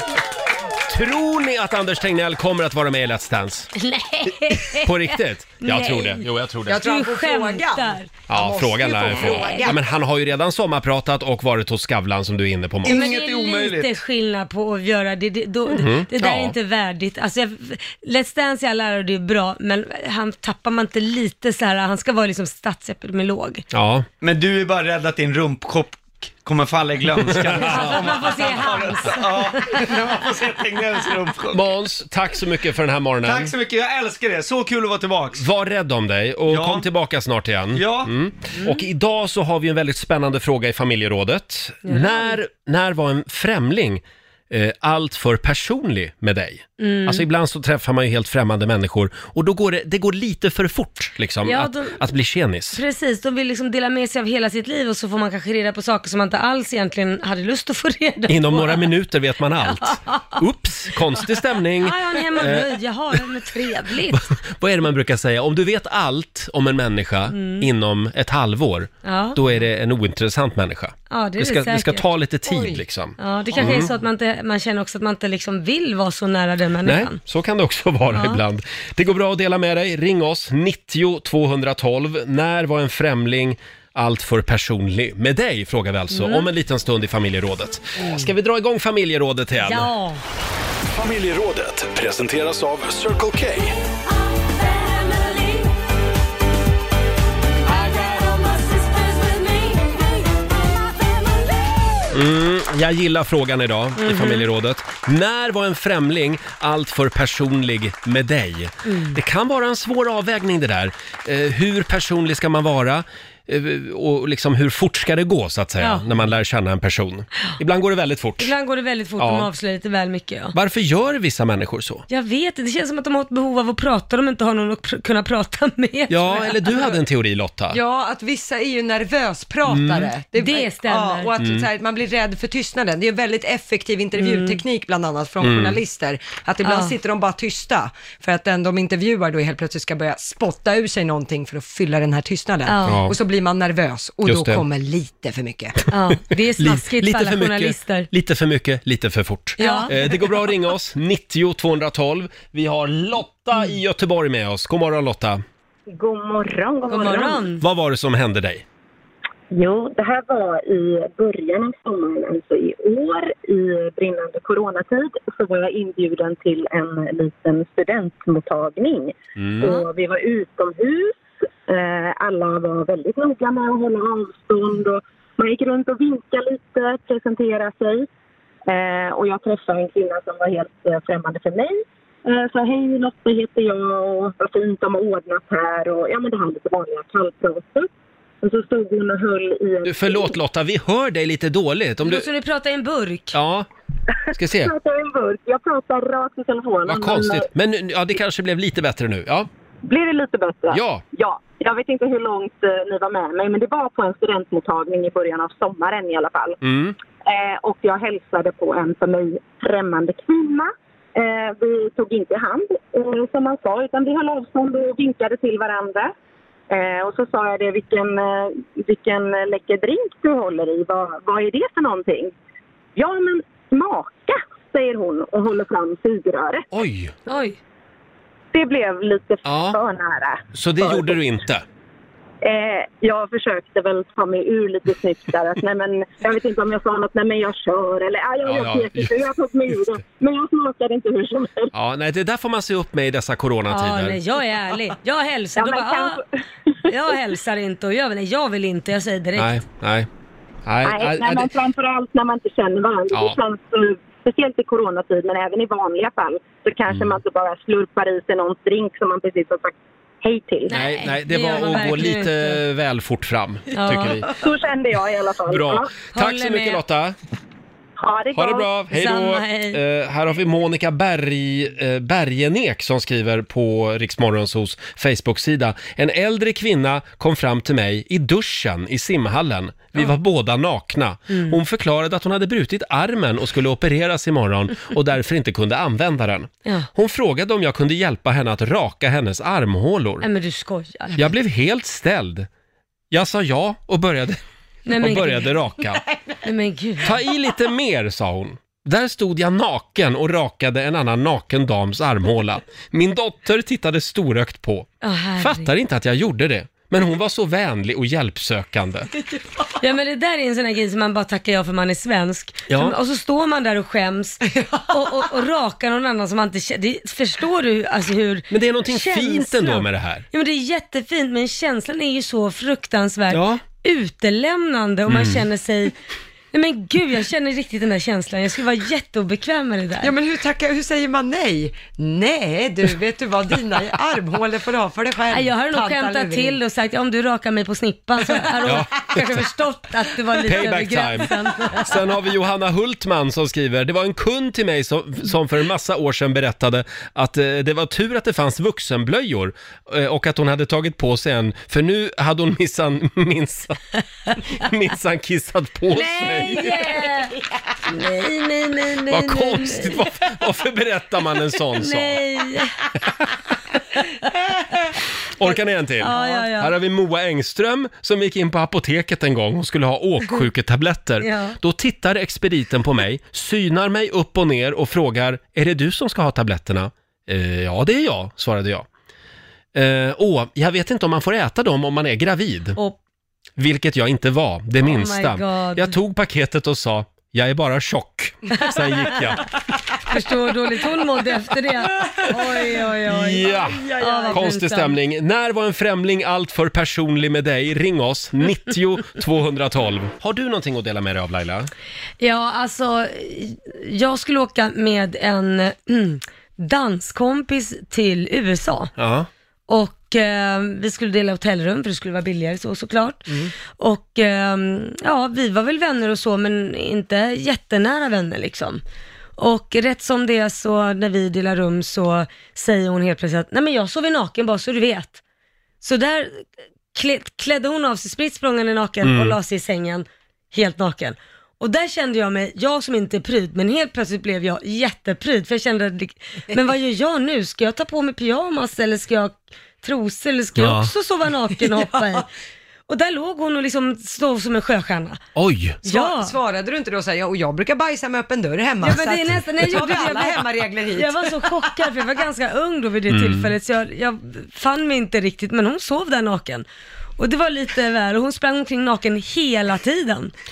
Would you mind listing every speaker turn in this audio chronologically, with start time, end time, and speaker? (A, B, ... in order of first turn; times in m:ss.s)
0:00.8-0:03.7 A
0:03.8-0:08.1 B
0:04.8-0:06.9 A
0:06.7-0:09.8 C
0:08.3-0:13.0 A
0:09.0-0:09.8 B
0:12.8-0:13.9 D
0:12.9-0:23.6 B
0:15.7-0:16.6 A
0:23.7-0:24.1 A
0:24.2-0:31.7 D
0:27.3-0:28.0 A
0:27.5-0:30.0 B
0:31.5-0:33.5 A
0:33.2-0:35.4 D
0:35.4-0:52.8 A
0:36.5-0:36.9 D
0:37.7-0:38.1 D
0:38.6-0:38.8 B
0:41.8-0:42.4 B
0:46.8-0:47.3 B
0:51.4-0:52.0 B
0:52.7-0:59.0 B
0:58.3-1:03.2 A
0:59.6-1:00.4 B
1:01.2-1:04.3 B
1:04.1-1:13.9 A
1:07.3-1:07.7 B
1:09.0-1:09.4 B
1:11.1-1:12.1 B
1:12.5-1:12.8 C
1:13.2-1:17.2 B
1:16.8-1:29.9 A
1:18.1-1:18.4 B
1:26.1-1:26.5 B
1:28.0-1:28.3 B
1:29.6-1:30.2 B
1:30.9-1:33.7 E
1:34.7-1:35.7 B
1:37.7-1:39.9 B
1:42.1-1:58.5 A
1:44.0-1:44.5 B
1:48.8-1:49.2 B
1:55.8-1:56.1 B
1:58.4-2:00.6 B
1:59.2-1:59.5 A
2:00.5-2:02.0 A
2:02.1-2:06.9 B
2:06.1-2:07.8 A
2:07.7-2:25.8 C
2:09.7-2:10.1 A
2:10.4-2:11.3 B
2:11.4-2:11.6 A
2:14.2-2:14.6 B
2:15.4-2:15.8 A
2:16.6-2:17.0 B
2:22.7-2:23.0 B
2:22.9-2:23.2 A
2:24.3-2:24.6 A
2:25.9-2:28.1 B
2:26.6-2:35.4 A
2:29.6-2:30.2 B
2:35.9-2:37.5 F
2:36.9-2:37.6 B
2:37.6-2:38.6 A
2:39.5-2:58.1 F
2:49.4-2:49.7 A
2:58.7-3:07.9 F
3:08.4-3:10.4 F
3:09.8-3:12.2 A
3:12.0-3:13.4 B
3:13.3-3:13.7 A
3:14.3-3:14.7 A
3:14.6-3:17.5 F
3:16.9-3:19.5 A
3:19.8-3:26.6 F
3:20.7-3:21.0 A
3:26.6-3:27.0 A
3:27.2-3:36.1 F
3:36.7-3:42.3 F
3:43.0-3:46.7 F
3:46.7-3:47.1 A
3:47.3-3:47.6 B
3:48.5-3:51.2 F
3:49.4-3:49.8 A
3:50.5-3:51.6 A
3:52.4-4:01.7 F
3:58.5-3:59.1 A
4:01.7-4:04.2 A
4:03.7-4:06.2 B
4:05.6-4:06.2 F
4:06.9-4:07.2 F
4:06.9-4:09.6 B
4:09.4-4:10.1 A
4:10.7-4:11.5 A
4:10.8-4:20.8 F
4:20.7-4:22.6 B
4:20.7-4:24.3 A
4:23.7-4:24.3 B
4:24.3-4:25.9 F
4:25.5-4:27.2 A
4:26.1-4:26.8 B
4:28.0-4:28.8 F
4:28.3-4:50.3 A
4:28.9-4:29.8 B
4:41.3-4:41.6 B
4:50.2-4:51.3 B
4:51.2-4:52.5 A
4:53.1-4:54.4 A
4:54.9-4:55.7 B
4:55.0-4:56.0 A
4:56.4-4:57.2 B
4:57.0-5:09.1 A
5:05.0-5:05.7 B
5:09.8-5:26.0 B
5:12.7-5:13.0 A
5:14.6-5:15.0 C
5:18.5-5:20.2 A
5:23.3-5:23.6 A
5:25.1-5:25.4 A
5:26.5-5:30.1 B
5:30.0-5:36.6 C
5:35.3-5:42.0 B
5:38.6-5:39.5 A
5:40.4-5:53.8 A
5:54.6-5:57.0 A
5:55.9-5:57.4 B
5:57.9-6:00.1 B
5:59.1-6:02.2 A
6:01.8-6:02.8 B
6:05.4-6:18.9 A
6:05.4-6:06.8 B
6:11.2-6:11.6 B
6:19.8-6:22.8 A
6:23.6-6:29.5 A
6:24.8-6:25.9 B
6:28.7-6:29.3 B
6:30.0-6:35.0 B
6:33.0-6:41.7 A
6:42.2-6:48.9 B
6:49.0-6:49.3 A
6:49.7-6:58.8 B
6:59.4-7:05.2 B
7:05.8-7:22.3 B
7:09.0-7:09.4 A
7:20.6-7:20.9 A
7:21.6-7:22.2 C
7:22.9-7:25.2 B
7:25.4-7:25.8 A
7:25.8-7:26.4 B
7:25.8-7:31.9 C
7:28.8-7:36.7 B
7:33.1-7:33.5 A
7:37.2-7:40.3 B